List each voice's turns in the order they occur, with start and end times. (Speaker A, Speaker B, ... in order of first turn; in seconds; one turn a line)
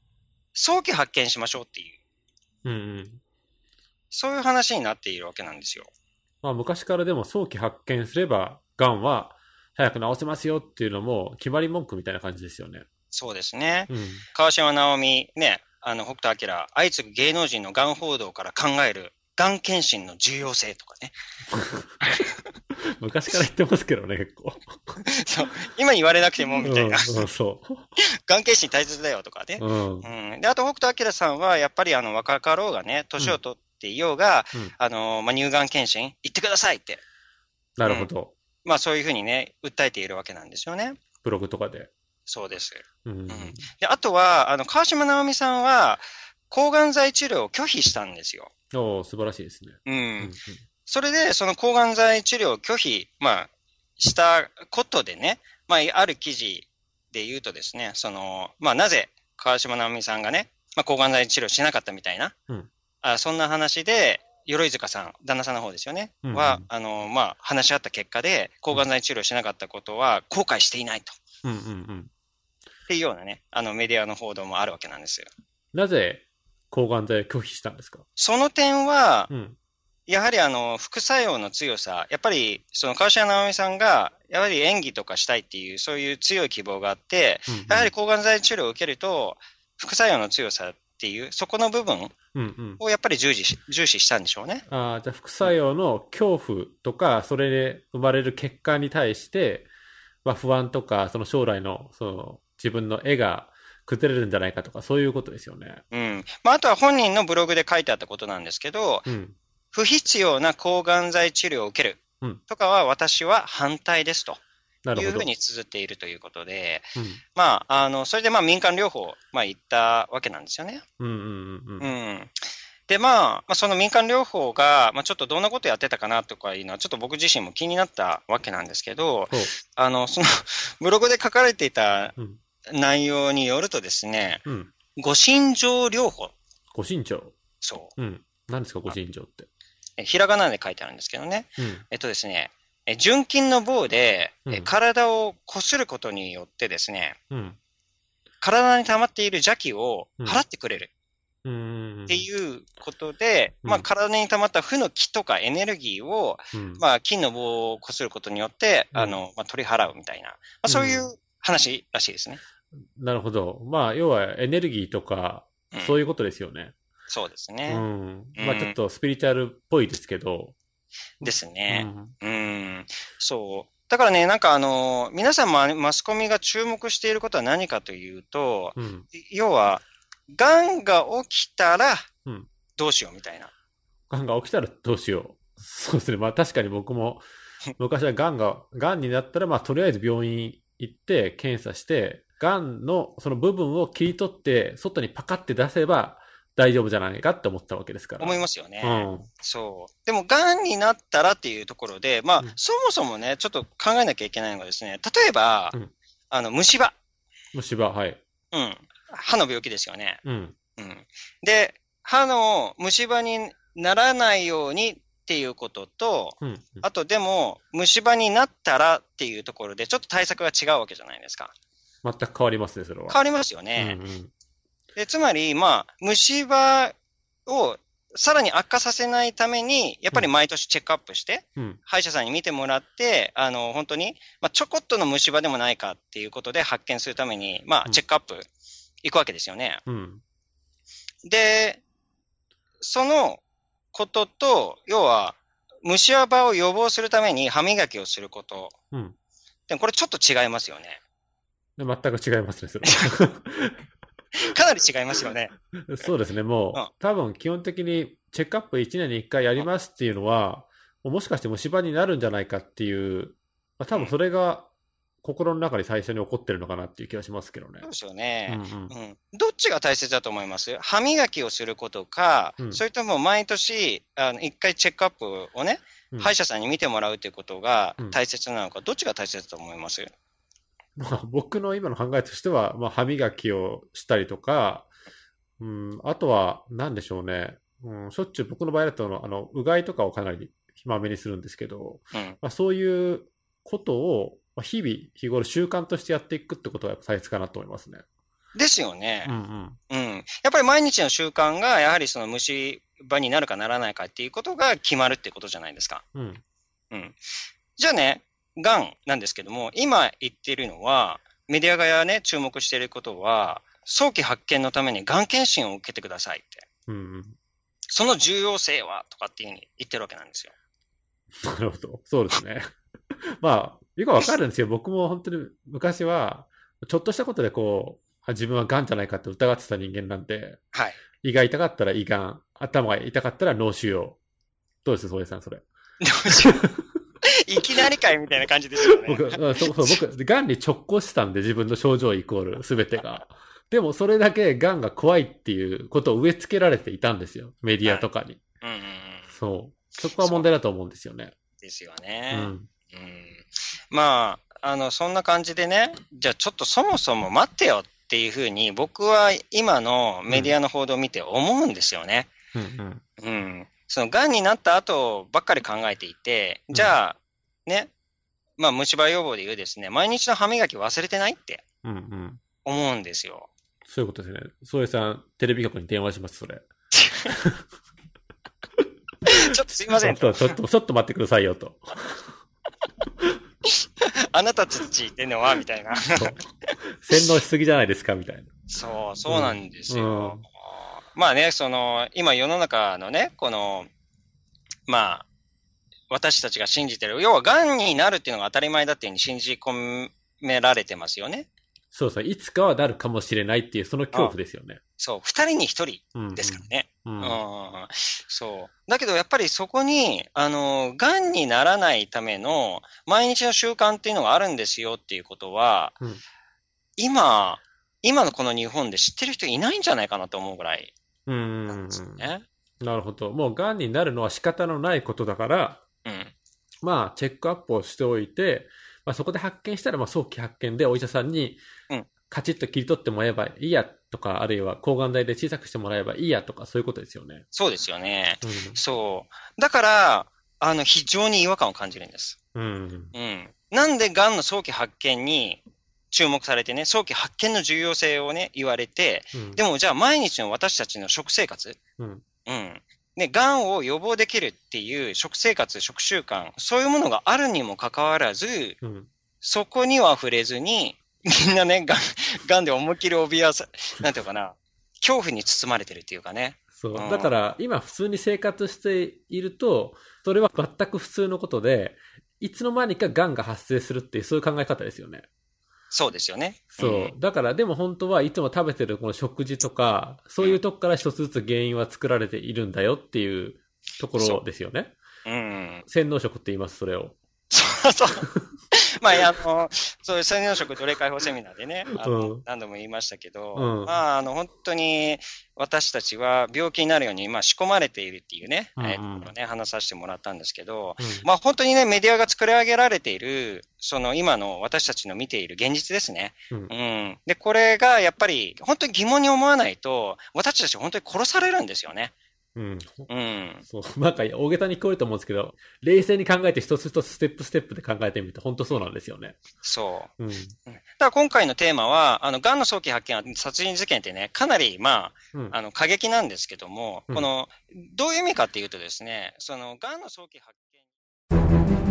Speaker A: 0.5-2.0
Speaker B: 2.6-3.2
Speaker A: 4.1-5.9
Speaker B: 6.4-12.8
Speaker A: 13.1-21.1
Speaker B: 13.9-14.2
Speaker B: 21.5-21.9
Speaker B: 23.0-25.0
Speaker A: 25.1-27.3
Speaker B: 26.6-27.9
Speaker A: 28.2-37.0
Speaker B: 29.6-30.1
Speaker B: 37.8-38.3
Speaker A: 37.8-38.1
Speaker A: 38.6-41.0
Speaker B: 41.2-41.9
Speaker A: 42.3-48.5
Speaker B: 43.0-43.6
Speaker B: 48.7-50.6
Speaker A: 49.9-50.3
Speaker A: 50.9-62.3
Speaker A: 63.0-71.2
Speaker B: 66.2-66.7
Speaker B: 71.4-72.1
Speaker A: 72.9-75.3
Speaker B: 75.7-78.0
Speaker A: 78.2-79.3
Speaker B: 79.3-79.6
Speaker A: 80.1-92.1
Speaker B: 87.5-87.9
Speaker B: 92.3-92.8
Speaker A: 92.8-94.6
Speaker B: 94.7-99.7
Speaker B: 100.2-105.8
Speaker A: 105.9-109.1
Speaker B: 109.1-109.3
Speaker A: 109.7-114.4
Speaker B: 114.8-115.3
Speaker A: 114.9-120.8
Speaker B: 121.0-121.9
Speaker A: 121.8-122.3
Speaker A: 122.9-132.1
Speaker B: 129.3-129.6
Speaker A: 132.7-134.4
Speaker B: 134.4-134.7
Speaker A: 134.9-136.3
Speaker B: 136.7-137.4
Speaker A: 137.6-137.9
Speaker B: 138.0-139.5
Speaker A: 140.0-147.2
Speaker B: 141.6-141.8
Speaker B: 147.3-147.6
Speaker A: 148.4-150.9
Speaker B: 151.4-152.2
Speaker A: 152.1-162.4
Speaker B: 156.5-156.8
Speaker B: 158.9-159.2
Speaker B: 160.7-161.1
Speaker B: 162.9-166.8
Speaker A: 167.1-167.8
Speaker B: 167.7-170.6
Speaker A: 168.4-168.8
Speaker A: 171.2-182.1
Speaker B: 171.2-172.1
Speaker B: 178.8-179.1
Speaker A: 182.8-183.5
Speaker B: 184.1-187.2
Speaker B: 187.8-199.3
Speaker A: 198.2-205.8
Speaker A: 206.3-206.9
Speaker B: 207.5-208.2
Speaker A: 208.5-210.2
Speaker B: 210.2-210.6
Speaker A: 210.8-221.5
Speaker B: 216.4-216.8
Speaker B: 222.0-223.2
Speaker A: 223.1-224.0
Speaker B: 223.8-224.3
Speaker A: 224.9-226.9
Speaker A: 227.5-238.5
Speaker A: 239.0-239.8
Speaker B: 239.9-240.2
Speaker A: 241.2-241.8
Speaker A: 242.8-243.4
Speaker A: 243.9-248.7
Speaker A: 249.7-251.0
Speaker B: 251.8-253.8
Speaker A: 254.4-255.5
Speaker B: 255.9-264.7
Speaker B: 265.2-267.9
Speaker A: 267.8-280.1
Speaker B: 268.5-268.9
Speaker B: 281.0-284.9
Speaker B: 285.6-298.0
Speaker A: 298.6-299.3
Speaker B: 299.2-299.8
Speaker A: 299.9-306.0
Speaker B: 306.1-306.4
Speaker A: 306.9-307.2
Speaker A: 307.8-316.6
Speaker B: 316.9-317.4
Speaker A: 317.9-320.5
Speaker B: 321.4-322.6
Speaker B: 323.4-330.6
Speaker A: 330.7-331.0
Speaker B: 331.2-334.2
Speaker B: 334.8-335.6
Speaker A: 336.0-336.6
Speaker B: 336.3-336.6
Speaker A: 337.4-340.0
Speaker B: 339.0-348.4
Speaker A: 348.6-349.3
Speaker B: 349.3-351.3
Speaker A: 350.2-350.5
Speaker A: 351.6-362.3
Speaker B: 352.3-352.7
Speaker B: 360.3-360.6
Speaker B: 362.6-363.0
Speaker A: 363.2-367.9
Speaker A: 368.6-371.6
Speaker B: 371.8-372.4
Speaker A: 372.6-373.5
Speaker B: 373.9-376.6
Speaker A: 376.9-377.4
Speaker B: 377.3-377.6
Speaker A: 379.2-380.6
Speaker B: 379.9-382.3
Speaker A: 384.0-386.4
Speaker B: 386.1-386.4
Speaker B: 387.0-388.5
Speaker A: 388.7-393.9
Speaker B: 389.3-390.4
Speaker A: 394.9-395.3
Speaker A: 396.1-401.5
Speaker B: 401.9-404.8
Speaker A: 405.0-415.9
Speaker B: 406.1-407.4
Speaker A: 417.0-420.9
Speaker B: 421.3-422.3
Speaker A: 421.7-422.4
Speaker B: 422.8-425.8
Speaker A: 426.1-426.3
Speaker B: 426.8-431.6
Speaker B: 432.3-437.4
Speaker A: 437.5-442.4
Speaker B: 438.4-438.8
Speaker B: 442.6-443.1
Speaker A: 443.1-451.8
Speaker B: 449.3-449.6
Speaker B: 452.0-452.2
Speaker A: 452.4-458.8
Speaker B: 458.8-459.1
Speaker A: 459.4-467.3
Speaker B: 466.8-475.3
Speaker A: 475.9-477.2
Speaker B: 476.7-484.9
Speaker A: 484.2-484.4
Speaker A: 485.2-485.8
Speaker B: 485.9-487.2
Speaker A: 487.5-488.3
Speaker A: 489.0-512.1
Speaker B: 491.9-492.4
Speaker B: 493.6-494.0
Speaker B: 498.8-499.3
Speaker B: 501.0-501.3
Speaker B: 512.6-513.1
Speaker A: 513.1-513.6
Speaker B: 513.6-519.4
Speaker A: 519.6-520.1
Speaker B: 520.2-520.5
Speaker A: 520.7-530.8